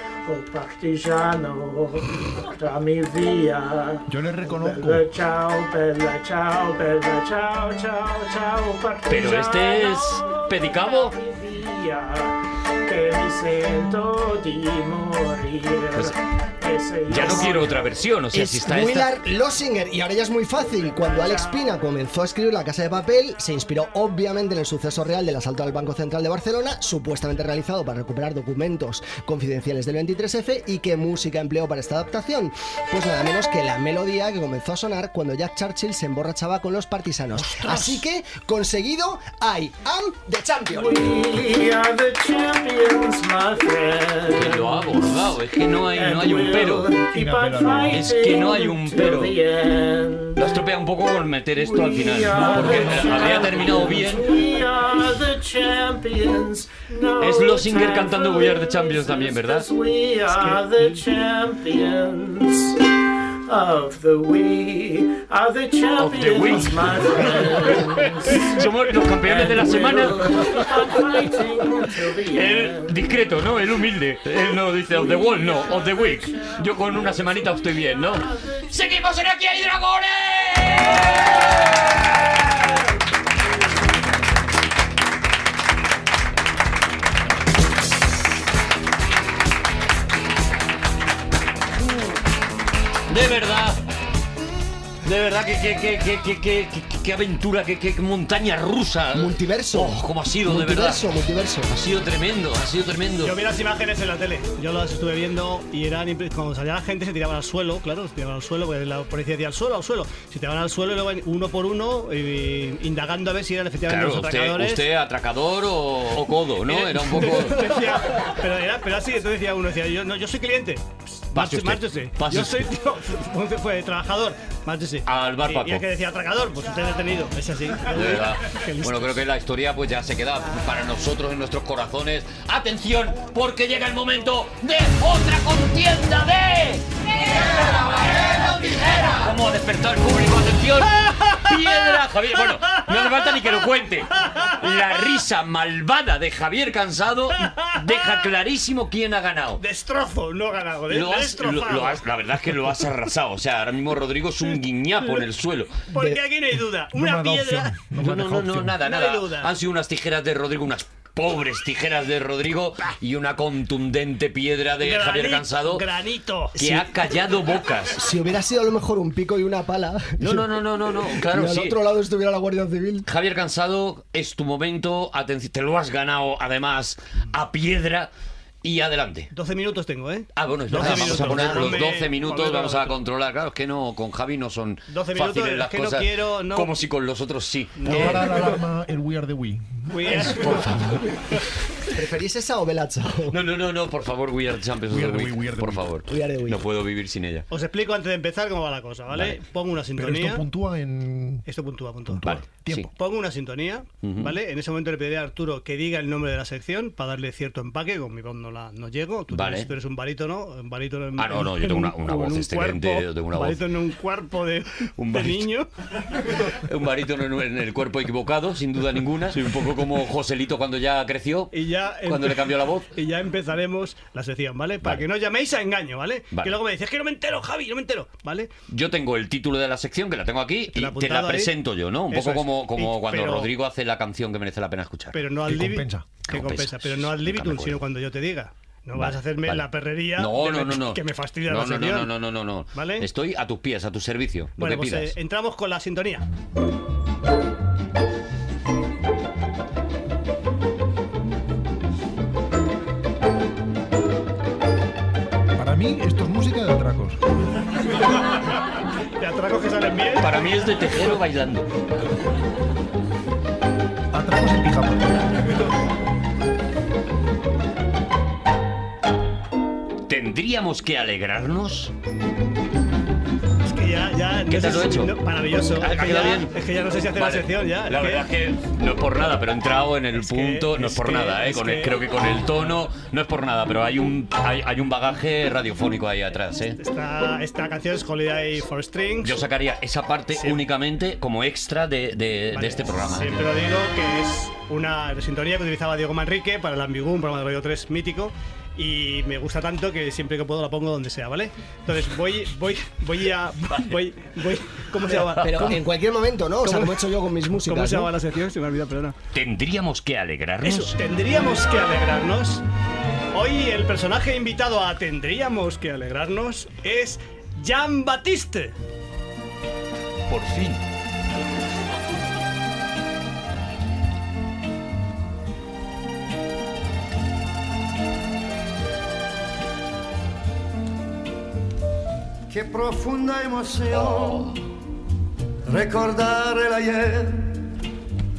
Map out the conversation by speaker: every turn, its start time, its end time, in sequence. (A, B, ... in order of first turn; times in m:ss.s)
0:00.2-0:17.8 A
0:04.1-0:05.1 B
0:09.1-0:11.2 C
0:15.9-0:16.2 C
0:17.1-0:19.2 C
0:18.3-0:41.1 D
0:20.7-0:21.7 A
0:37.4-0:38.1 B
0:40.7-0:45.4 A
0:44.3-0:46.9 C
0:45.9-0:50.5 A
0:47.1-0:48.1 B
0:47.9-0:49.4 C
0:50.4-0:54.4 C
0:51.6-1:02.9 A
0:52.3-0:53.6 B
0:57.2-0:59.7 C
1:03.5-1:08.7 A
1:06.0-1:10.7 C
1:09.2-1:13.1 A
1:12.3-1:21.9 C
1:14.9-1:18.7 A
1:33.1-1:33.8 C
1:35.0-1:41.0 C
1:39.1-1:41.7 D
1:41.7-1:43.4 C
1:43.2-1:54.8 E
1:53.9-1:57.7 C
1:56.7-2:09.2 E
2:01.3-2:02.7 C
2:05.1-2:05.8 C
2:07.9-2:29.6 C
2:24.2-2:24.6 E
2:27.4-2:28.2 E
2:29.6-2:32.0 E
2:30.9-2:35.8 C
2:35.9-2:37.8 E
2:36.9-2:38.8 B
2:38.0-2:45.8 C
2:38.8-2:39.5 E
2:44.8-2:46.5 E
2:46.6-2:46.9 D
2:46.6-2:48.1 C
2:48.0-2:50.5 D
2:50.2-2:51.8 C
2:51.2-2:53.1 D
2:53.1-2:58.1 C
2:58.6-2:59.3 C
2:59.3-3:03.0 E
3:00.4-3:08.3 C
3:00.8-3:01.8 D
3:04.9-3:06.8 E
3:07.8-3:08.6 E
3:07.9-3:11.0 B
3:09.9-3:10.6 E
3:10.1-3:11.2 C
3:11.9-3:13.4 D
3:13.3-3:17.5 C
3:14.9-3:15.9 B
3:16.1-3:16.6 D
3:17.5-3:20.4 E
3:19.1-3:19.4 C
3:20.0-3:21.4 B
3:21.5-3:22.3 E
3:22.1-3:22.9 B
3:22.2-3:22.9 C
3:22.9-3:35.7 E
3:24.0-3:24.4 C
3:29.3-3:29.7 C
3:31.2-3:33.6 C
3:35.0-3:35.5 C
3:36.3-3:41.5 C
3:41.5-3:48.5 E
3:42.0-3:42.9 C
3:48.7-3:55.2 C
3:50.7-3:51.5 E
3:52.1-3:53.5 E
3:55.1-4:02.1 E
3:55.5-3:56.1 B
3:56.3-3:57.8 C
3:59.0-3:59.6 C
4:00.2-4:05.2 C
4:02.7-4:03.1 E
4:04.6-4:06.3 E
4:15.6-4:17.2 B
4:19.2-4:20.4 E
4:20.2-4:21.7 C
4:24.1-4:25.2 B
4:30.1-4:31.9 C
4:33.6-4:38.3 E
4:34.5-4:35.2 C
4:35.7-4:36.5 C
4:37.1-4:46.8 C
4:40.2-4:42.0 E
4:46.8-4:49.4 E
4:49.2-4:53.5 C
4:50.3-4:50.6 E
4:52.5-5:05.9 E
5:05.1-5:08.1 D
5:06.6-5:09.2 E
5:09.3-5:11.0 C
5:10.6-5:12.6 E
5:13.3-5:18.8 E
5:20.3-5:20.8 C
5:32.5-5:34.6 F
5:33.9-5:34.6 C
5:35.7-5:37.6 F